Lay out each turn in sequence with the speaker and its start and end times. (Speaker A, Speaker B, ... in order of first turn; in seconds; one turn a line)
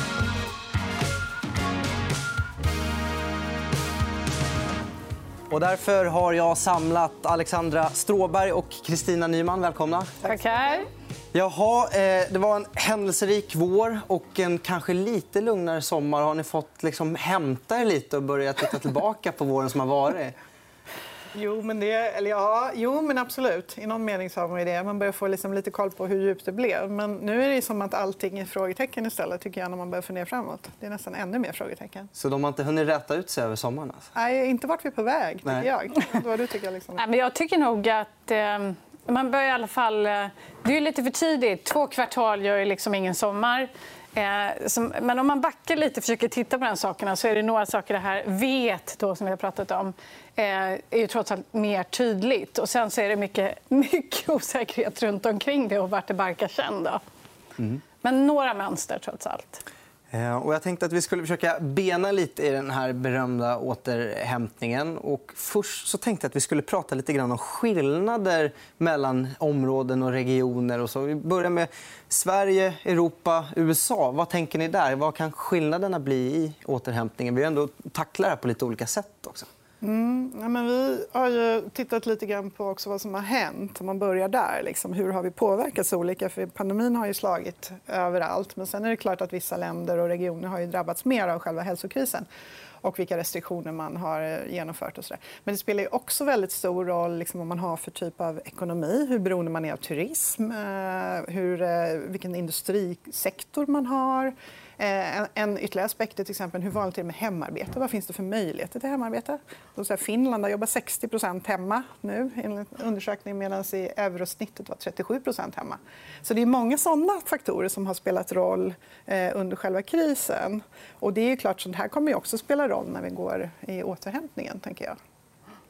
Speaker A: 5.5-10.1
Speaker B: 10.2-10.9
Speaker A: 11.3-20.3
Speaker C: 21.3-32.1
Speaker A: 32.1-34.1
Speaker C: 34.1-37.0
Speaker B: 37.0-57.0
Speaker B: 58.0-59.6
Speaker A: 60.1-79.5
Speaker C: 79.8-92.2
Speaker C: 92.8-125.0